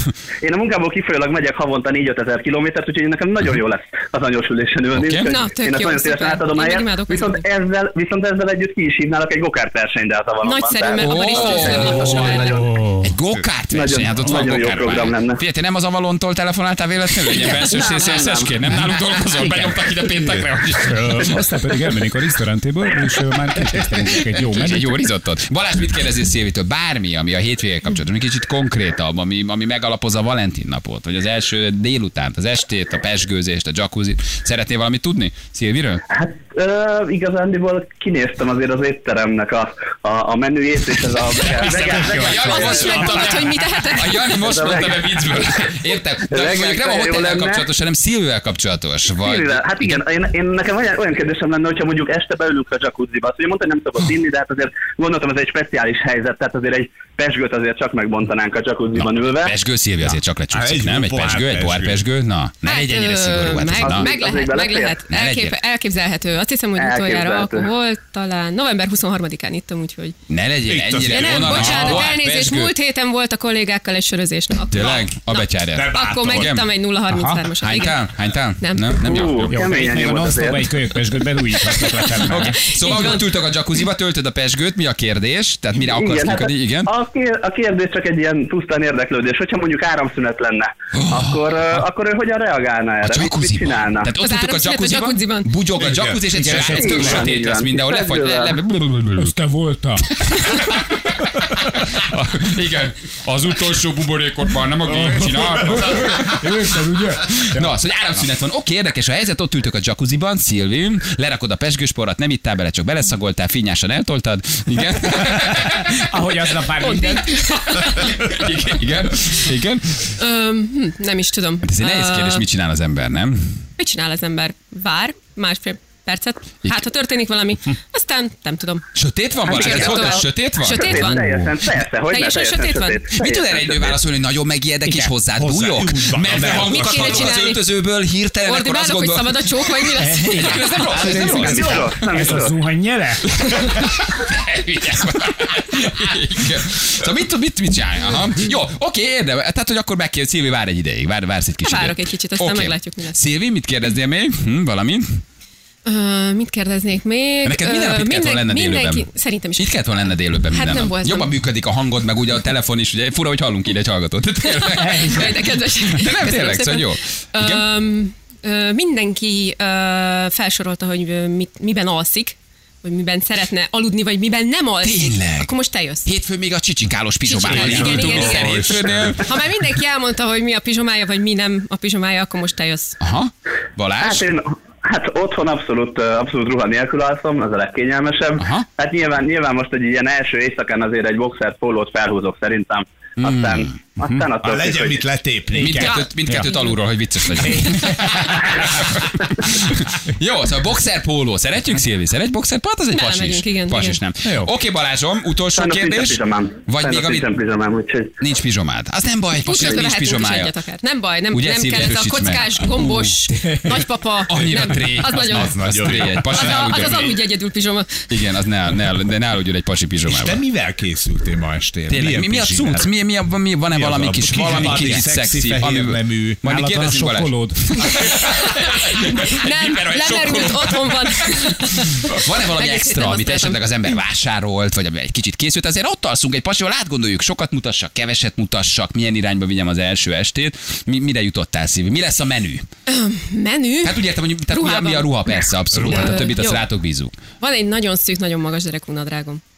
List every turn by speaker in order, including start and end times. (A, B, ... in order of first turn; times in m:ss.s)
0:00.4-0:12.6 A
0:04.9-0:05.3 B
0:05.2-0:07.4 C
0:10.4-0:12.5 C
0:11.0-0:12.4 B
0:12.5-0:13.0 D
0:13.0-0:21.4 B
0:13.7-0:15.4 A
0:17.4-0:18.5 A
0:19.3-0:19.8 D
0:20.7-0:21.3 E
0:21.2-0:25.0 D
0:23.9-0:36.0 B
0:36.1-0:43.2 A
0:41.4-0:43.5 E
0:41.6-0:50.0 B
0:42.3-0:44.4 C
0:44.4-0:45.4 A
0:46.3-0:47.6 A
0:49.1-0:59.5 A
0:58.9-1:04.1 B
1:00.5-1:02.0 E
1:02.6-1:10.1 C
1:03.8-1:05.0 A
1:05.1-1:05.6 B
1:06.8-1:07.7 A
1:10.3-1:12.7 B
1:10.6-1:12.1 E
1:11.1-1:18.0 C
1:14.7-1:16.7 B
1:15.7-1:16.6 E
1:17.1-1:17.4 D
1:17.6-1:19.8 B
1:18.6-1:19.0 C
1:19.0-1:20.7 A
1:19.5-1:22.6 D
1:21.8-1:23.3 C
1:22.3-1:26.9 B
1:25.9-1:34.1 A
1:30.9-1:31.8 B
1:33.0-1:39.4 B
1:34.2-1:35.5 C
1:35.8-1:36.6 E
1:36.3-1:37.3 D
1:36.7-1:38.5 A
1:39.2-1:40.0 D
1:40.2-1:56.5 B
1:44.9-1:45.8 E
1:46.1-1:47.7 D
1:56.0-1:57.3 D
1:56.8-1:58.2 C
1:57.7-2:00.1 B
2:00.2-2:02.4 C
2:01.6-2:03.5 B
2:03.8-2:08.8 C
2:08.9-2:11.1 B
2:09.4-2:14.0 A
2:09.5-2:11.4 C
2:12.1-2:13.0 C
2:13.2-2:22.1 B
2:14.8-2:15.2 D
2:15.4-2:17.4 E
2:16.3-2:17.7 C
2:18.4-2:21.8 C
2:20.0-2:23.2 D
2:21.3-2:22.5 A
2:23.2-2:35.2 B
2:31.6-2:33.2 C
2:35.8-2:41.3 C
2:37.4-2:47.7 B
2:44.4-2:56.1 C
2:54.8-2:55.5 B
2:56.0-2:59.3 B
2:57.2-3:03.0 C
2:57.5-2:59.2 E
3:03.0-3:04.2 B
3:04.0-3:15.0 A
3:08.4-3:08.6 B
3:13.2-3:13.8 B
3:14.4-3:15.7 E
3:15.5-3:16.5 D
3:15.6-3:27.3 B
3:15.9-3:16.7 C
3:17.4-3:18.8 D
3:22.9-3:24.0 C
3:25.5-3:28.1 A
3:28.2-3:30.5 B
3:29.4-3:38.0 C
3:31.3-3:32.8 B
3:34.3-3:37.1 B
3:35.1-3:37.1 E
3:38.1-3:40.4 B
3:40.0-3:42.9 E
3:41.9-3:51.3 B
3:43.7-3:46.4 E
3:46.4-3:47.8 D
3:48.0-3:53.7 C
3:51.9-4:02.6 B
4:02.9-4:06.7 C
4:03.8-4:07.1 B
4:07.4-4:09.4 C